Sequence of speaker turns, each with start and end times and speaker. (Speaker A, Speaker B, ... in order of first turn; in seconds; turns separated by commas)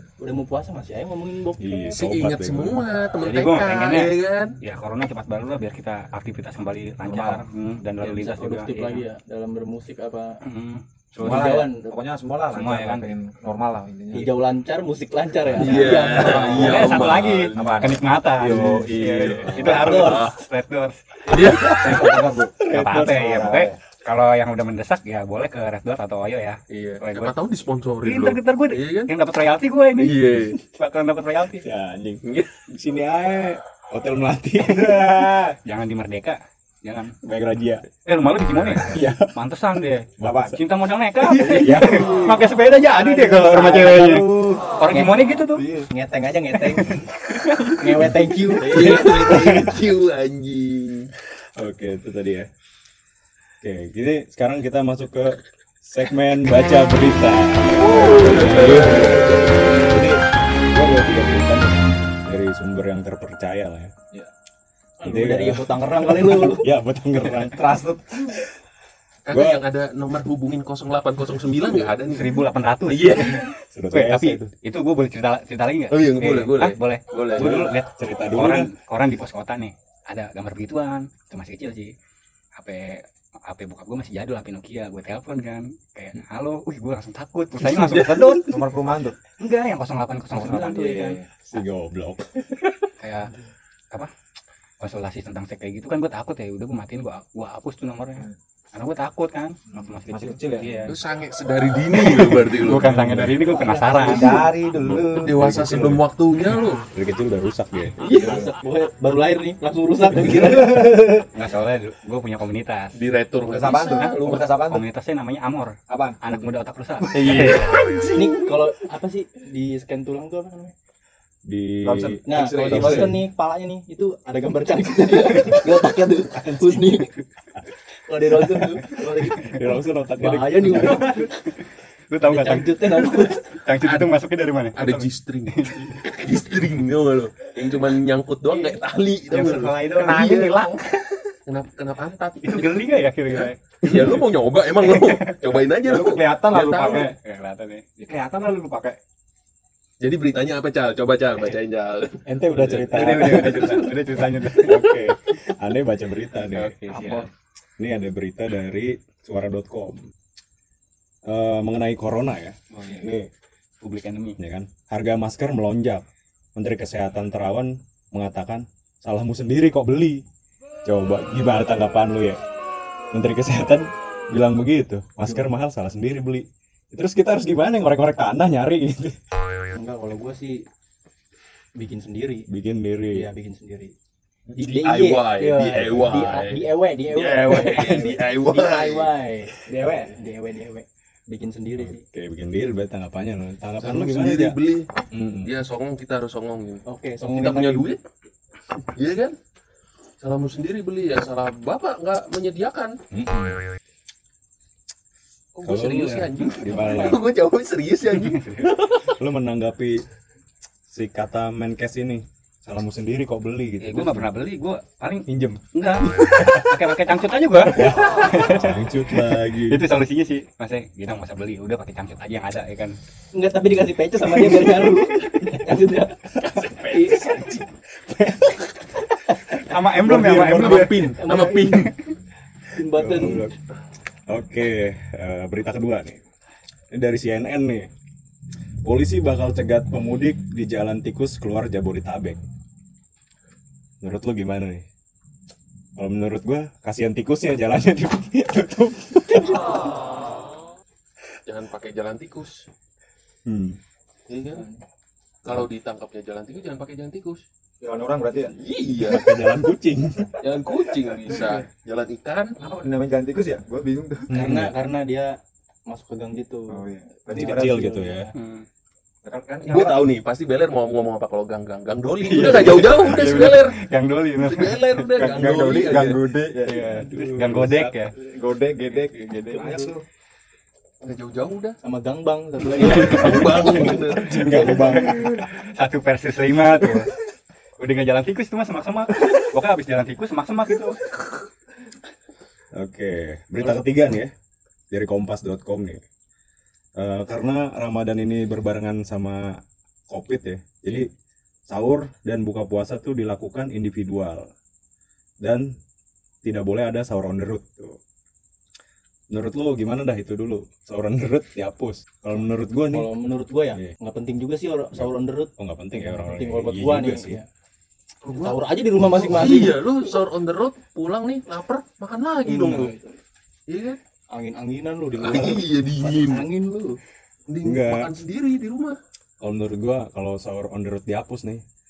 Speaker A: 0.2-2.0, Speaker B: 1.6-2.9, Speaker C: 1.9-4.6, Speaker D: 3.2-9.1, Speaker E: 7.0-7.5, Speaker A: 8.0-10.4, Speaker D: 10.4-11.6, Speaker A: 11.2-11.9, Speaker E: 11.2-14.3, Speaker D: 12.5-13.1, Speaker A: 14.1-17.0, Speaker C: 15.6-17.8, Speaker D: 15.6-27.4, Speaker E: 15.8-20.1, Speaker B: 18.4-18.9, Speaker C: 19.0-20.4, Speaker A: 19.6-20.3, Speaker C: 21.3-22.1, Speaker E: 21.3-23.8, Speaker B: 22.6-23.6, Speaker C: 26.7-29.1, Speaker D: 28.0-31.7, Speaker C: 30.0-30.6, Speaker B: 31.6-35.3, Speaker C: 32.2-32.6, Speaker E: 34.7-35.5, Speaker D: 34.8-37.1, Speaker B: 37.2-37.9, Speaker D: 37.9-45.7, Speaker B: 38.8-39.3, Speaker B: 40.2-40.6, Speaker E: 41.3-44.7, Speaker B: 41.4-42.1, Speaker E: 45.6-45.9, Speaker A: 45.8-47.0, Speaker D: 46.6-47.8, Speaker A: 47.7-49.2, Speaker C: 48.5-51.1, Speaker B: 48.8-49.9, Speaker B: 51.6-52.5, Speaker B: 53.6-63.9, Speaker E: 57.8-59.2, Speaker C: 57.9-59.3, Speaker A: 65.0-66.7, Speaker B: 65.0-68.5, Speaker E: 67.4-68.4, Speaker C: 69.2-73.5, Speaker B: 69.3-69.6, Speaker D: 72.0-81.9, Speaker B: 73.7-74.5, Speaker C: 75.9-77.7, Speaker B: 77.3-78.7, Speaker D: 82.6-88.6, Speaker C: 87.7-88.3, Speaker E: 88.4-89.2, Speaker D: 89.3-91.2, Speaker E: 90.3-91.3, Speaker B: 91.5-92.8, Speaker D: 93.0-93.3, Speaker D: 94.8-101.0, Speaker E: 99.7-100.8, Speaker C: 100.9-103.3, Speaker D: 102.0-104.5, Speaker B: 103.0-103.3, Speaker A: 103.4-104.5, Speaker E: 103.9-105.4, Speaker B: 104.7-106.0, Speaker C: 105.1-106.8, Speaker B: 106.9-108.4, Speaker A: 108.0-111.2, Speaker C: 108.1-108.3, Speaker E: 108.2-108.4, Speaker E: 110.3-111.1, Speaker D: 110.6-113.0, Speaker C: 113.0-114.5, Speaker E: 113.5-114.9, Speaker D: 113.8-118.0, Speaker E: 115.9-116.4, Speaker E: 117.2-118.1, Speaker C: 117.3-117.6, Speaker A: 118.1-120.7, Speaker B: 121.5-123.2, Speaker E: 121.8-123.2, Speaker A: 122.2-127.1, Speaker A: 128.1-131.3, Speaker B: 129.4-131.2, Speaker D: 130.8-131.3, Speaker D: 132.1-136.0, Speaker A: 132.2-133.5, Speaker C: 133.8-134.1, Speaker C: 134.8-140.8, Speaker D: 138.5-138.8, Speaker D: 139.3-140.7, Speaker E: 140.0-141.2, Speaker C: 141.5-147.1, Speaker D: 142.4-144.2, Speaker D: 144.8-145.5, Speaker E: 145.8-147.2, Speaker D: 146.7-147.8, Speaker E: 148.0-149.0, Speaker C: 150.0-153.8, Speaker B: 152.2-153.9, Speaker E: 152.9-154.0, Speaker D: 152.9-155.0, Speaker B: 154.6-157.2, Speaker D: 156.5-157.3, Speaker C: 156.9-157.2, Speaker B: 157.8-160.1, Speaker B: 161.2-163.3, Speaker D: 162.7-163.1, Speaker D: 163.8-164.4, Speaker B: 164.4-166.1, Speaker B: 166.6-170.2, Speaker B: 170.8-172.4, Speaker B: 173.1-179.2, Speaker A: 179.8-180.6, Speaker A: 181.8-182.5, Speaker B: 182.5-183.3, Speaker A: 183.1-183.9, Speaker C: 184.5-189.1, Speaker A: 184.6-192.0, Speaker B: 185.8-186.3, Speaker E: 189.7-190.1, Speaker B: 191.8-194.6, Speaker C: 193.8-194.9, Speaker B: 195.1-195.5, Speaker C: 195.4-198.0, Speaker A: 196.9-197.9, Speaker C: 198.9-199.4, Speaker C: 200.2-203.0, Speaker B: 203.1-203.6, Speaker C: 205.6-209.2, Speaker B: 205.6-207.2, Speaker D: 208.2-208.8, Speaker B: 209.1-210.0, Speaker B: 210.9-214.4, Speaker D: 213.8-223.0, Speaker B: 215.3-216.7, Speaker B: 217.7-219.8, Speaker A: 223.3-227.4, Speaker C: 226.6-227.7, Speaker B: 228.0-228.6, Speaker D: 229.4-231.9, Speaker C: 230.0-231.9, Speaker A: 231.2-231.9, Speaker A: 232.7-233.5, Speaker B: 232.9-233.5, Speaker B: 234.3-236.2, Speaker B: 236.9-237.9, Speaker B: 238.8-242.4, Speaker B: 244.0-244.8, Speaker B: 246.0-249.8, Speaker C: 251.5-252.7, Speaker B: 253.5-253.8, Speaker C: 254.3-254.7, Speaker A: 254.5-254.8, Speaker C: 255.4-257.4, Speaker E: 257.8-258.6, Speaker C: 258.5-259.4, Speaker B: 259.0-260.4, Speaker C: 260.4-262.6, Speaker E: 262.6-264.5, Speaker B: 264.3-264.7, Speaker A: 264.3-268.3, Speaker E: 266.7-267.9, Speaker B: 267.3-268.3, Speaker D: 268.3-268.7, Speaker E: 269.2-270.1, Speaker C: 269.6-273.8, Speaker D: 272.2-275.4, Speaker C: 274.4-276.3, Speaker E: 275.2-276.9, Speaker D: 276.7-278.2, Speaker B: 276.7-278.0, Speaker E: 278.2-280.0, Speaker A: 279.1-279.9, Speaker C: 281.0-281.8, Speaker A: 281.8-284.0, Speaker C: 282.8-285.1, Speaker B: 283.1-285.4, Speaker D: 284.4-287.1, Speaker D: 287.8-291.1, Speaker B: 292.7-294.3, Speaker B: 294.9-296.0, Speaker B: 297.0-301.1, Speaker B: 301.7-304.5, Speaker B: 305.4-305.8, Speaker B: 306.4-308.0, Speaker B: 309.3-313.1, Speaker A: 312.8-317.4, Speaker B: 315.0-317.4, Speaker C: 318.2-318.5, Speaker A: 318.3-319.8, Speaker C: 319.1-322.9, Speaker A: 322.4-323.2, Speaker C: 323.7-324.0, Speaker A: 324.3-327.0, Speaker C: 325.2-326.5, Speaker C: 327.5-329.0, Speaker B: 327.6-328.1, Speaker B: 329.4-331.6